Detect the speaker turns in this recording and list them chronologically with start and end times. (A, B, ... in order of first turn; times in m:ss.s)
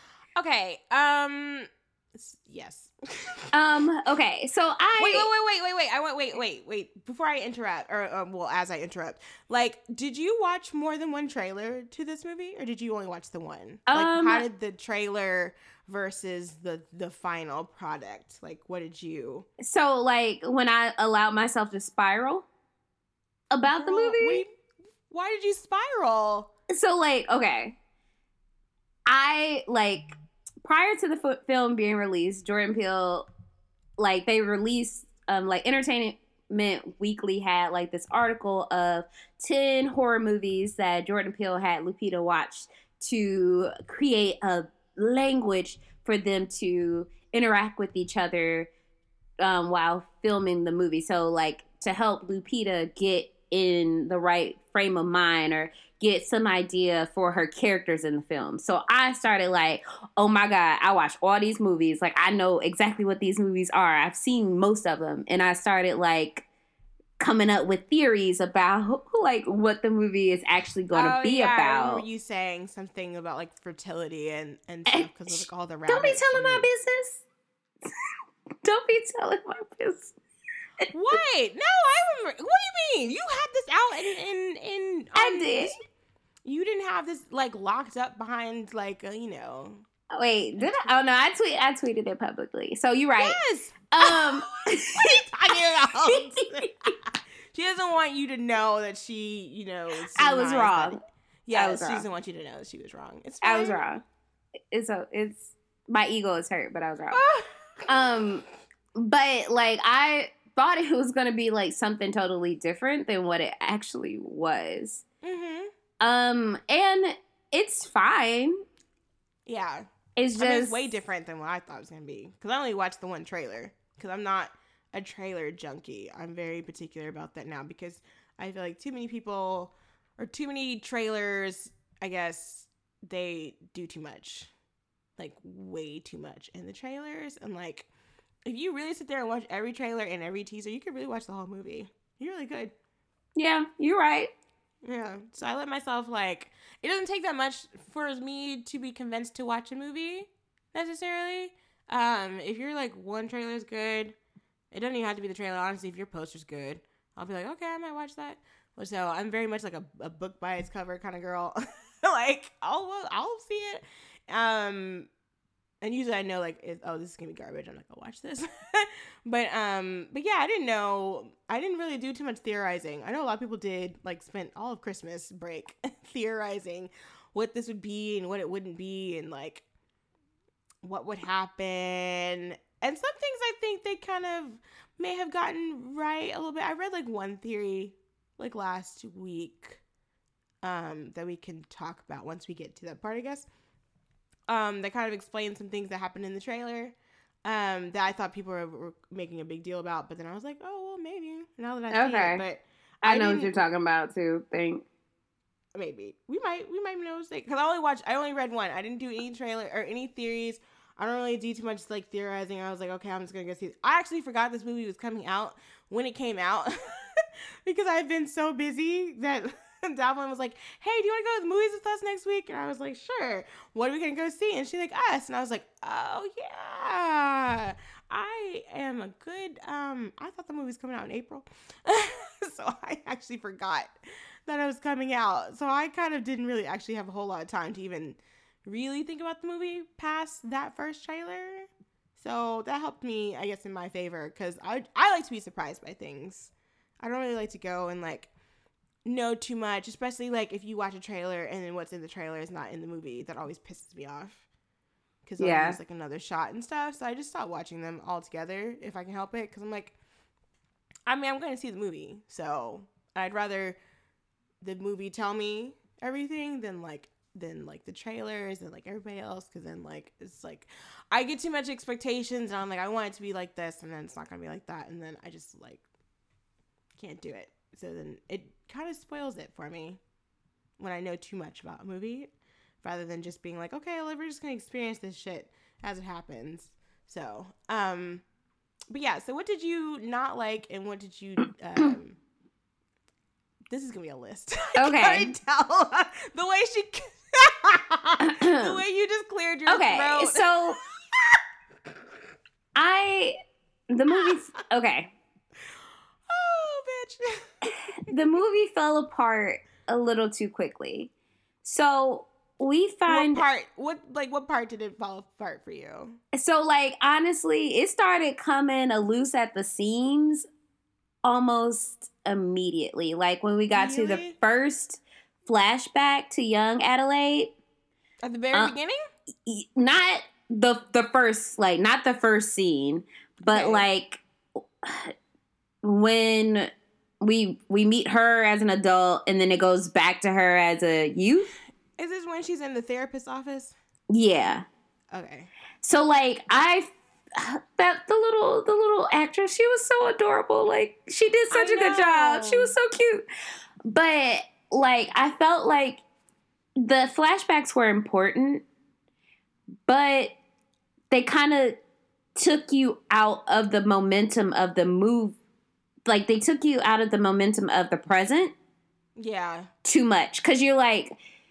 0:00.4-0:03.4 A
0:03.5-0:05.3 B
0:05.0-0:19.4 A
0:13.9-0:14.4 B
0:19.6-0:22.4 B
0:23.5-0:24.4 B
0:23.6-0:24.5 A
0:25.1-0:26.5 A
0:26.7-0:27.7 B
0:29.1-0:33.3 B
0:34.0-0:48.7 B
0:49.4-1:06.4 B
1:07.2-1:12.0 B
1:10.9-1:16.6 A
1:14.9-1:17.2 B
1:18.6-1:20.1 B
1:20.9-1:25.8 A
1:25.2-1:25.7 B
1:26.4-1:29.8 A
1:30.1-1:33.4 B
1:30.6-1:30.9 A
1:33.2-1:34.4 A
1:33.9-1:35.2 B
1:35.0-1:43.8 A
1:40.2-1:41.0 B
1:41.5-1:42.0 B
1:43.4-1:44.0 B
1:44.7-1:47.2 B
1:47.1-1:48.0 A
1:47.9-1:48.4 B
1:48.9-1:55.0 B
1:55.2-1:55.7 A
1:56.0-1:58.6 B
1:59.4-2:14.5 A
2:00.2-2:00.9 B
2:15.2-2:17.9 A
2:18.4-2:22.7 A
2:23.4-2:24.3 B
2:24.8-2:34.2 A
2:34.7-2:45.1 A
2:45.8-2:59.6 A
3:00.8-3:09.8 A
3:10.6-3:13.5 A
3:14.5-3:23.6 A
3:21.9-3:22.4 B
3:23.0-3:24.8 B
3:25.7-4:08.3 A
4:09.0-4:14.4 A
4:15.2-4:19.9 A
4:15.4-4:15.8 B
4:21.0-4:23.8 A
4:24.6-4:35.8 A
4:37.0-4:40.0 A
4:40.8-4:42.3 A
4:42.8-4:48.2 A
4:48.9-4:52.2 A
4:53.7-5:01.4 A
4:54.8-4:55.3 B
4:58.2-4:58.8 B
4:59.7-5:00.8 B
5:02.8-5:03.4 B
5:03.9-5:05.1 B
5:04.1-5:04.4 A
5:06.3-5:07.4 A
5:08.1-5:11.1 B
5:11.6-5:13.4 B
5:13.1-5:16.2 A
5:16.3-5:20.4 B
5:21.2-5:27.5 B
5:23.7-5:24.4 A
5:28.2-5:29.0 A
5:29.4-5:34.2 B
5:33.5-5:33.8 A
5:34.8-5:35.1 B
5:35.8-5:41.5 B
5:42.0-5:43.8 A
5:44.1-5:44.6 B
5:45.1-5:45.5 A
5:45.8-5:53.2 B
5:51.5-5:52.7 A
5:53.8-5:56.0 B
5:56.8-5:58.6 B
5:59.8-6:00.3 B
6:01.1-6:01.8 B
6:02.4-6:05.4 B
6:06.0-6:08.5 B
6:09.2-6:09.7 A
6:09.8-6:11.1 B